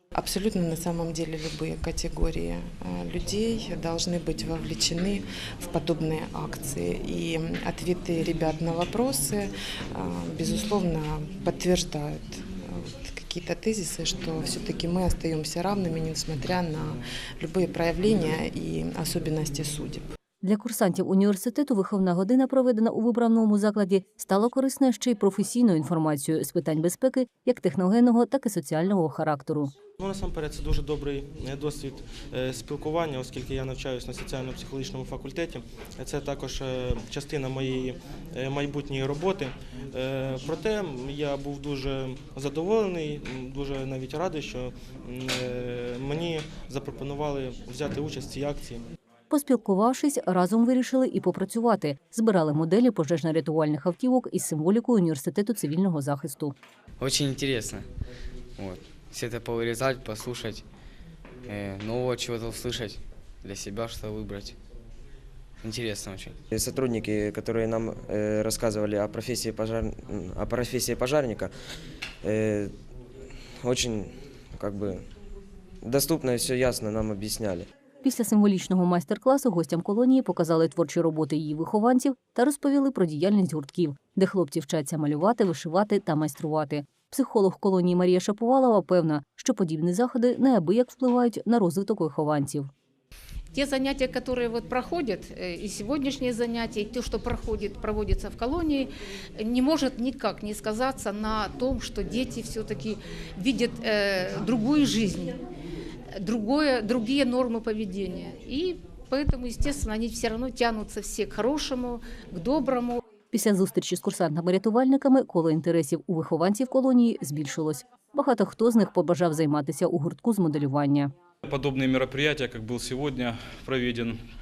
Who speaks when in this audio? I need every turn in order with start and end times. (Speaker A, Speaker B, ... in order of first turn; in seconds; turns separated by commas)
Speaker A: 0.1-20.1, Speaker B: 20.4-29.7, Speaker C: 30.0-48.8, Speaker B: 49.3-56.5, Speaker D: 57.0-57.9, Speaker D: 58.6-60.6, Speaker D: 61.5-64.6, Speaker D: 65.6-66.4, Speaker E: 66.5-71.5, Speaker E: 72.2-72.7, Speaker E: 73.6-75.0, Speaker E: 75.8-77.7, Speaker B: 78.0-92.7, Speaker F: 93.5-105.4, Speaker F: 106.2-113.0, Speaker B: 113.3-121.1, Speaker G: 121.4-124.2